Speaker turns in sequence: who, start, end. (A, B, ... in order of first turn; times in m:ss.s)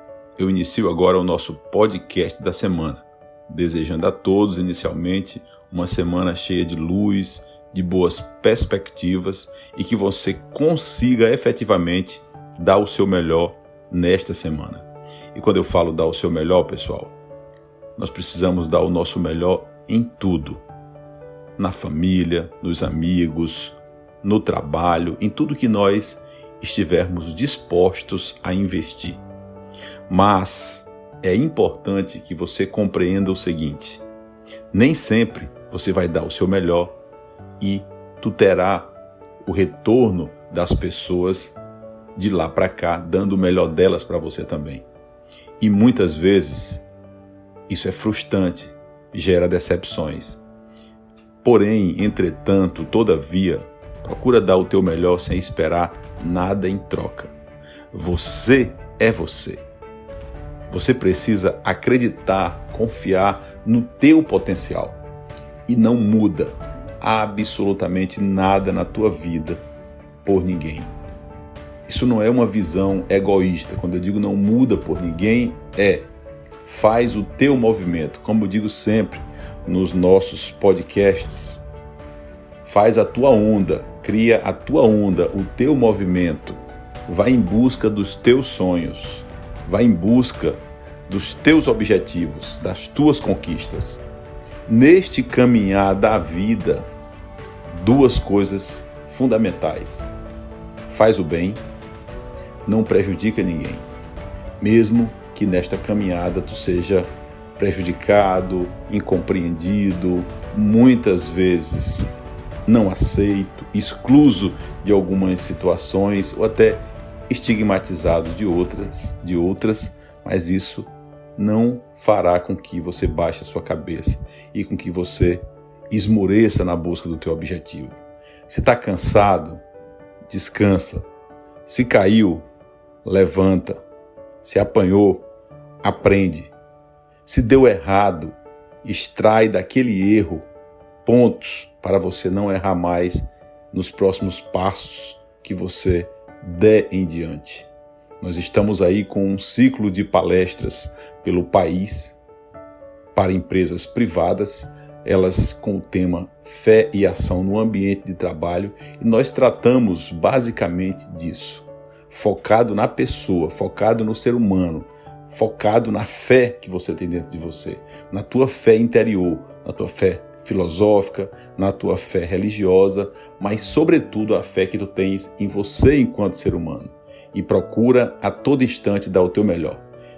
0:00.4-0:17.1 A
0:18.0-0:20.6 A
0:21.6-0:29.2 A
0:30.1-0:34.0 A
0:34.7-0:37.0 A
0:37.6-0:41.6 A
0:42.1-0:44.8 A
0:45.6-0:46.9 A
0:47.7-0:50.4 A
0:51.4-0:57.3 A
0:57.9-0:59.6 A
1:00.7-1:05.0 A
1:05.7-1:09.6 A
1:10.2-1:10.9 A
1:11.9-1:16.1 A
1:16.6-1:21.6 A
1:22.6-1:34.0 A
1:34.7-1:36.9 A
1:37.7-1:40.1 A
1:40.8-1:41.6 A
1:42.6-1:43.9 A
1:44.6-1:52.1 A
1:52.6-2:09.6 A
2:10.3-2:11.1 A
2:11.6-2:12.4 A
2:13.0-2:13.8 A
2:14.4-2:15.3 A
2:15.8-2:16.5 A
2:17.2-2:20.5 A
2:21.0-2:27.7 A
2:28.2-2:32.2 A
2:33.1-2:59.8 A